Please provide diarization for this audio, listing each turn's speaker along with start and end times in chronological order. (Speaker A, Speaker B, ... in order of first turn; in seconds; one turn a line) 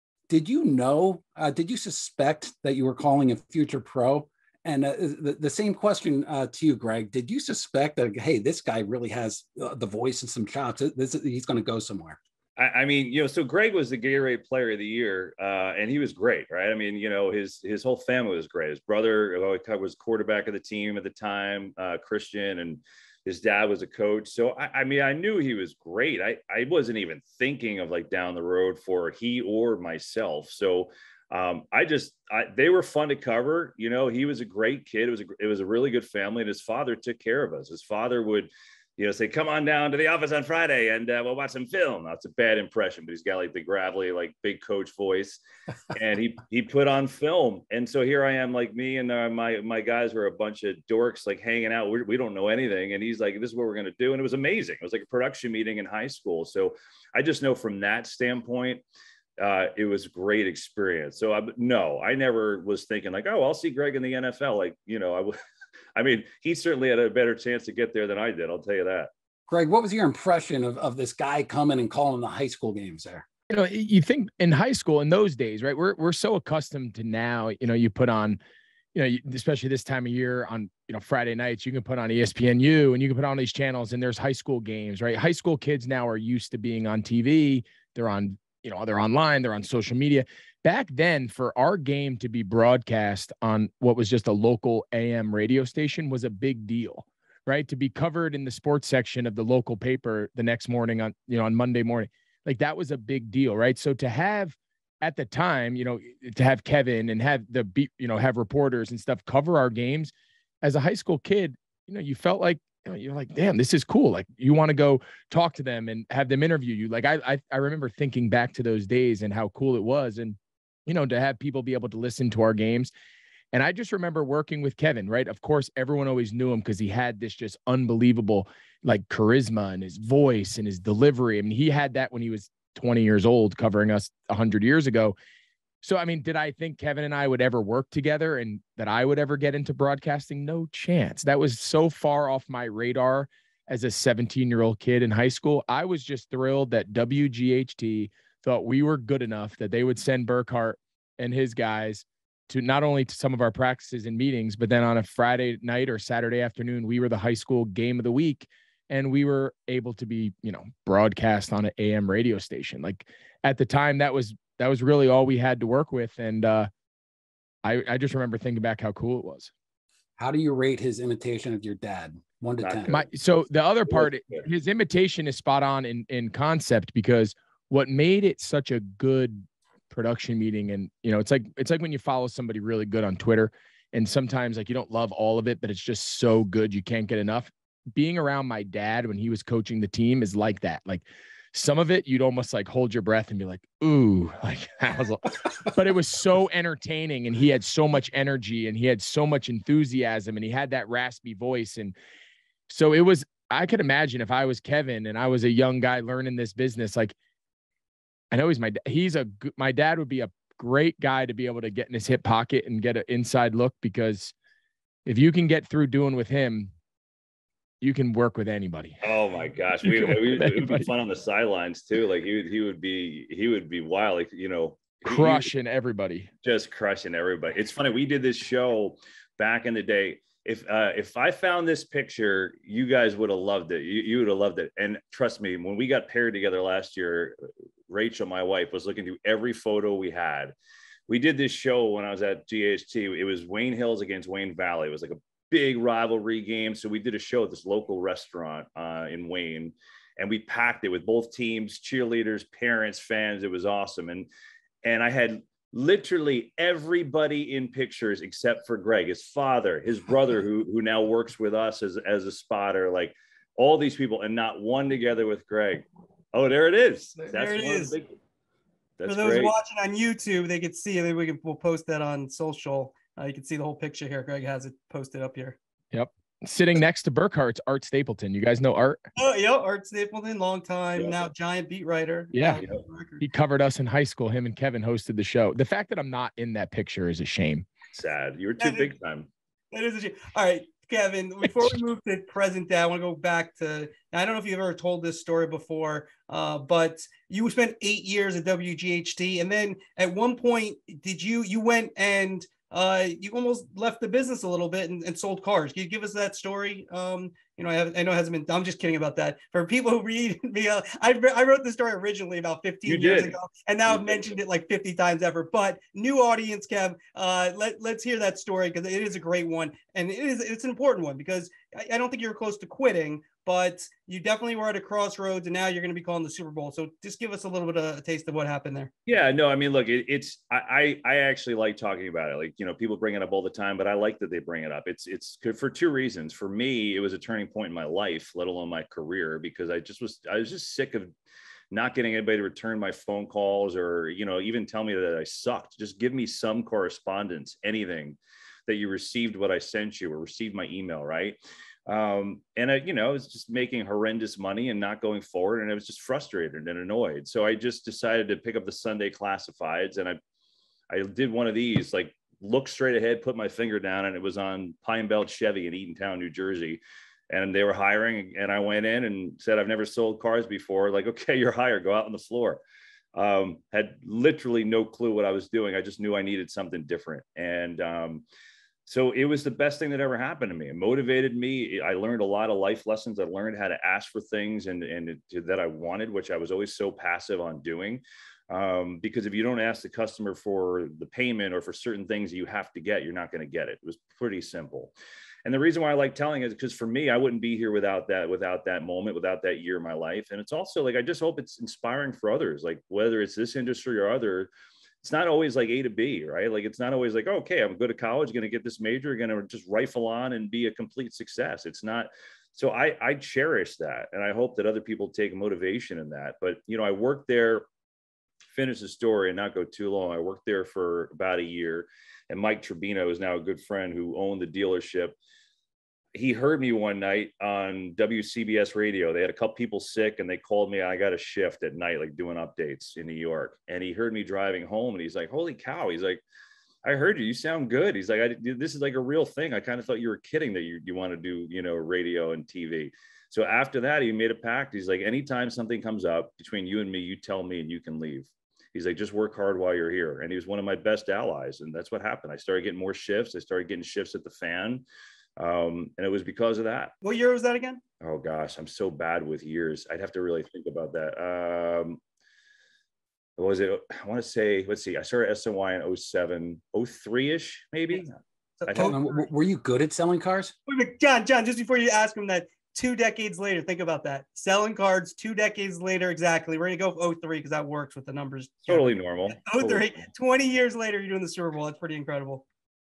Speaker A: 0.3-12.2
Speaker B: 12.6-45.4
Speaker B: 45.9-58.8
Speaker B: 59.4-65.3
Speaker B: 66.0-69.1
Speaker A: 69.5-73.2
Speaker C: 73.5-78.4
Speaker C: 78.9-122.9
Speaker C: 123.5-135.2
Speaker C: 135.8-166.7
Speaker C: 167.6-169.5
Speaker A: 170.2-173.0
Speaker B: 172.6-173.1
Speaker C: 172.9-201.9
Speaker B: 173.9-174.4
Speaker C: 202.7-207.1
Speaker C: 208.3-214.3
Speaker C: 215.0-216.7
Speaker C: 217.8-219.0
Speaker B: 219.0-225.5
Speaker C: 219.8-220.9
Speaker C: 225.0-226.3
Speaker B: 226.4-237.4
Speaker B: 237.9-240.5
Speaker B: 241.1-254.3
Speaker B: 254.8-268.1
Speaker D: 267.3-267.9
Speaker B: 269.0-269.5
Speaker D: 269.1-275.6
Speaker C: 275.9-279.0
Speaker D: 279.2-283.2
Speaker C: 282.3-282.6
Speaker C: 283.2-287.7
Speaker B: 287.9-289.3
Speaker D: 288.6-288.9
Speaker D: 289.7-328.9
Speaker B: 312.9-313.4
Speaker B: 313.9-314.3
Speaker B: 329.1-341.1
Speaker B: 341.7-360.2
Speaker B: 360.9-372.6
Speaker B: 373.1-378.2
Speaker B: 378.9-394.9
Speaker B: 395.4-404.5
Speaker B: 405.0-417.6
Speaker B: 418.5-425.1
Speaker B: 426.1-436.2
Speaker B: 436.8-454.8
Speaker B: 455.4-456.9
Speaker D: 457.0-457.8
Speaker B: 458.0-462.0
Speaker B: 463.4-468.1
Speaker D: 468.6-469.2
Speaker B: 468.7-469.0
Speaker A: 468.7-470.5
Speaker D: 470.7-482.4
Speaker B: 478.7-479.9